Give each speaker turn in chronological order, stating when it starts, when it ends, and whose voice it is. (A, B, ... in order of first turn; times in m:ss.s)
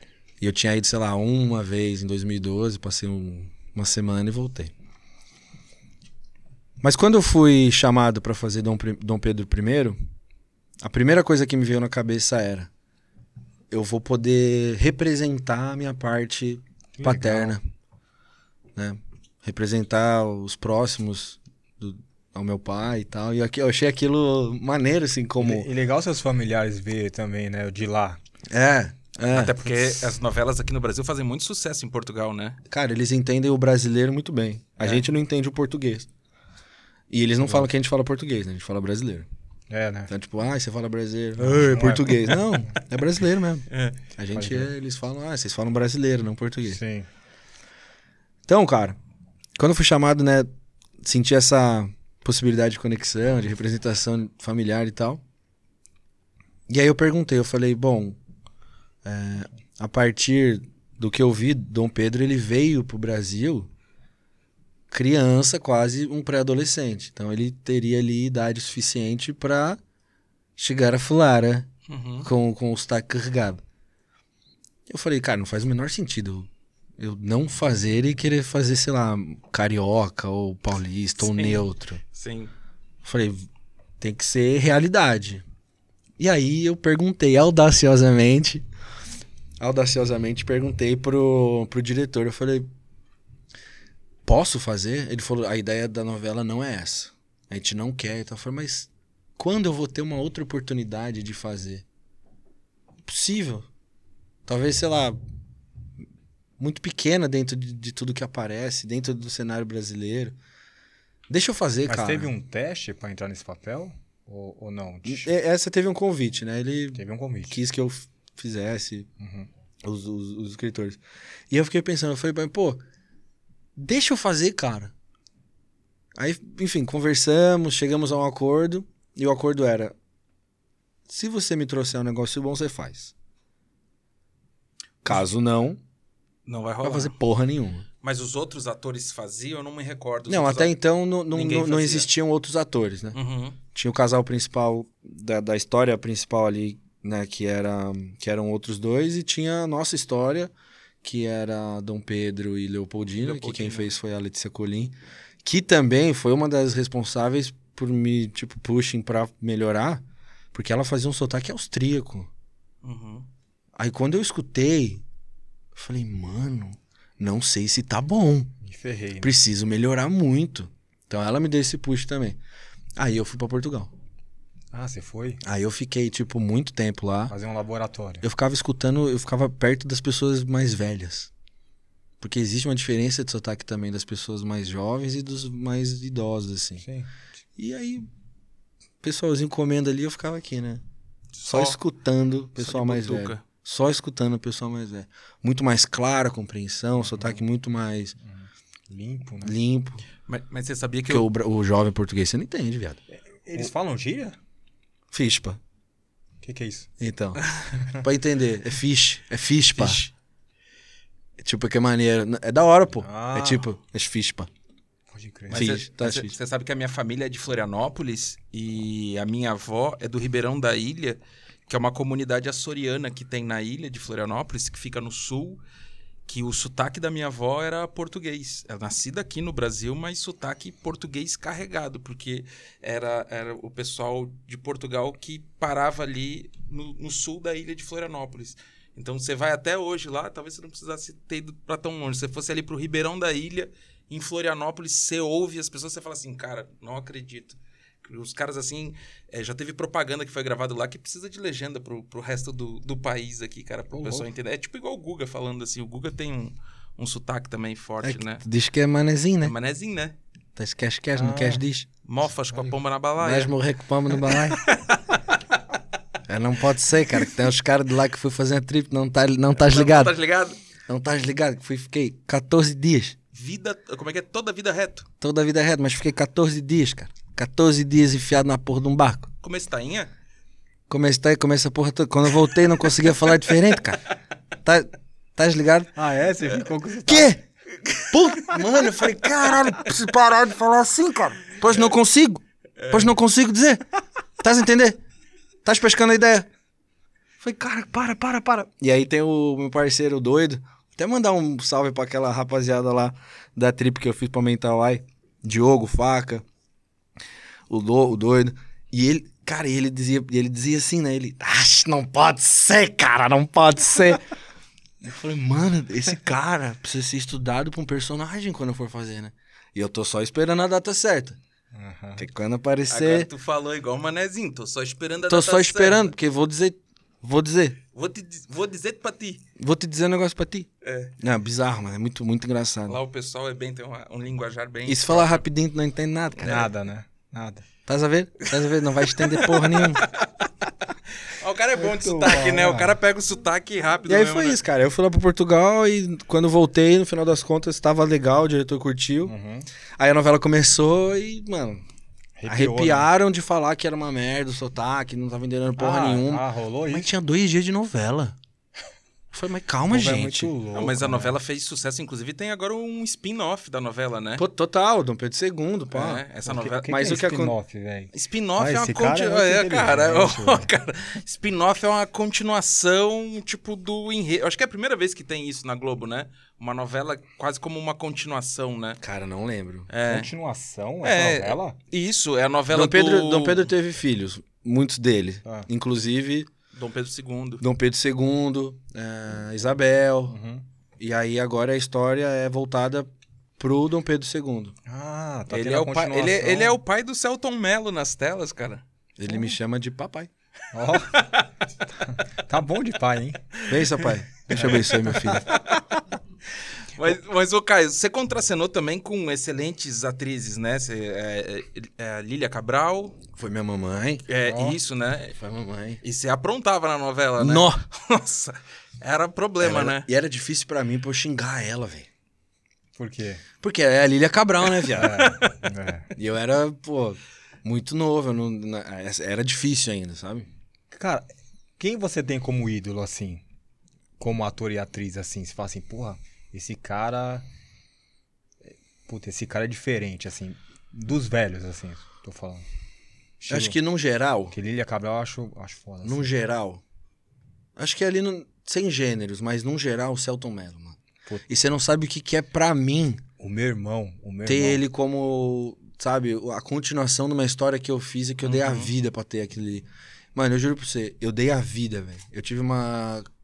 0:00.4-0:04.7 A
0:06.8-0:10.0 A
0:10.8-0:12.7 A
0:13.7-0:17.6 A
0:17.0-0:17.6 B
0:18.8-0:25.7 A
0:25.4-0:28.2 B
0:28.5-0:29.8 A
0:29.3-0:32.6 C
0:32.7-0:36.1 A
0:37.1-0:39.3 A
0:37.4-0:37.7 B
0:39.7-0:40.1 B
0:40.1-0:46.8 A
0:41.4-0:42.4 B
0:43.7-0:44.0 C
0:44.3-0:44.7 B
0:46.7-0:47.1 B
0:48.5-0:49.0 A
0:49.6-0:50.5 A
0:51.0-0:55.2 A
0:56.7-0:58.2 A
0:59.0-1:03.7 A
1:04.9-1:09.8 A
1:10.6-1:11.7 A
1:11.9-1:12.3 C
1:12.2-1:13.6 A
1:14.9-1:16.5 A
1:17.0-1:22.0 A
1:21.2-1:22.5 C
1:23.0-1:23.5 A
1:24.0-1:25.4 A
1:26.2-1:28.6 A
1:29.6-1:32.7 A
1:34.2-1:41.8 A
1:43.0-1:43.7 A
1:44.4-1:45.2 A
1:46.6-1:50.4 A
1:51.3-1:52.3 A
1:51.9-1:55.3 B
1:55.0-1:59.1 A
1:56.9-1:57.5 B
1:59.2-1:59.5 B
1:59.8-2:01.0 A
2:01.5-2:02.8 A
2:03.8-2:04.9 A
2:06.2-2:09.9 A
2:11.1-2:13.1 A
2:15.0-2:15.8 A
2:16.4-2:17.2 C
2:16.8-2:17.8 A
2:18.0-2:20.8 C
2:20.3-2:23.2 A
2:21.3-2:22.1 C
2:23.1-2:23.6 C
2:23.7-2:30.5 A
2:31.0-2:42.3 A
2:33.2-2:33.9 C
2:42.8-2:43.3 C
2:43.8-2:45.0 A
2:45.7-2:48.5 A
2:48.6-2:49.3 B
2:49.2-2:52.4 A
2:53.0-2:53.9 A
2:54.7-2:55.4 B
2:55.4-2:57.3 A
2:57.3-2:58.2 B
2:58.2-3:01.3 A
3:02.2-3:06.8 A
3:06.8-3:07.1 B
3:07.6-3:08.1 A
3:09.0-3:10.8 A
3:11.3-3:11.8 C
3:11.4-3:18.2 A
3:12.6-3:13.4 C
3:17.0-3:17.4 B
3:18.2-3:19.5 B
3:19.4-3:20.0 A
3:20.2-3:21.3 C
3:21.1-3:23.0 A
3:23.3-3:24.4 B
3:25.1-3:25.6 A
3:26.4-3:26.9 B
3:27.0-3:30.0 A
3:29.8-3:30.1 C
3:31.4-3:34.5 A
3:33.0-3:33.6 B
3:35.1-3:35.7 B
3:35.5-3:45.6 C
3:35.5-3:36.3 A
3:46.3-4:18.4 C
4:13.9-4:14.3 B
4:18.0-4:19.5 A
4:19.4-4:20.2 C
4:20.6-4:21.9 A
4:21.1-4:21.6 B
4:22.0-4:23.5 C
4:23.2-4:24.6 A
4:24.5-4:25.2 C
4:26.3-4:30.1 A
4:29.5-4:30.6 C
4:30.9-4:33.2 A
4:33.3-4:35.1 C
4:35.2-4:39.3 A
4:39.4-4:40.1 C
4:40.9-4:44.0 A
4:44.6-4:45.9 A
4:45.9-4:47.4 B
4:47.1-4:47.4 A
4:48.0-4:53.8 A
4:52.8-4:53.1 C
4:54.4-4:55.0 A
4:55.6-4:56.5 A
4:57.4-5:06.4 A
5:07.7-5:14.3 A
5:15.0-5:21.4 A
5:21.7-5:22.2 B
5:22.2-5:23.3 A
5:22.9-5:26.1 C
5:25.3-5:27.8 A
5:27.9-5:29.4 C
5:29.6-5:30.7 A
5:30.8-5:31.1 C
5:31.2-5:33.0 A
5:32.9-5:35.4 C
5:34.8-5:36.7 A
5:36.4-5:37.6 B
5:37.8-5:40.0 A
5:39.0-5:40.2 C
5:41.2-5:44.6 C
5:42.0-5:42.9 B
5:42.0-5:42.7 A
5:44.1-5:49.3 A
5:49.2-5:49.7 B
5:50.0-5:51.8 A
5:52.4-5:53.1 B
5:52.4-5:58.4 A
5:55.8-5:57.1 B
5:59.3-6:00.5 A
5:59.9-6:01.4 B
6:00.7-6:04.4 C
6:04.4-6:06.2 A
6:05.9-6:07.1 C
6:06.4-6:10.7 B
6:06.8-6:07.6 A
6:08.1-6:19.0 C
6:19.0-6:19.9 A
6:19.9-6:20.3 C
6:20.0-6:21.8 B
6:21.0-6:23.7 C
6:22.7-6:26.5 A
6:26.7-6:27.6 C
6:27.6-6:30.4 A
6:30.3-6:30.6 B
6:31.0-6:34.8 A
6:34.8-6:36.8 B
6:35.5-6:38.8 C
6:39.2-6:40.3 A
6:39.3-6:39.6 B
6:40.7-6:41.3 B
6:41.1-6:41.4 C
6:42.0-6:43.6 B
6:43.7-6:45.5 A
6:44.5-6:45.4 B
6:44.5-6:45.8 C
6:47.0-6:53.2 C
6:53.4-6:54.2 A
6:54.3-6:55.4 C
6:54.4-6:54.8 B
6:55.4-6:56.0 A
6:56.0-7:00.1 C
6:57.4-6:57.8 A
6:59.6-7:02.1 A
7:03.0-7:03.4 B
7:03.6-7:05.3 A
7:05.0-7:06.1 B
7:05.2-7:05.5 C
7:06.1-7:10.5 A
7:10.9-7:11.2 B
7:11.8-7:13.4 B
7:14.2-7:17.4 B
7:18.7-7:22.6 B
7:23.4-7:23.8 B
7:23.5-7:24.5 A
7:24.5-7:26.2 B
7:26.0-7:26.8 A
7:27.8-7:33.2 A
7:33.4-7:34.8 B
7:34.4-7:43.3 A
7:38.4-7:38.9 C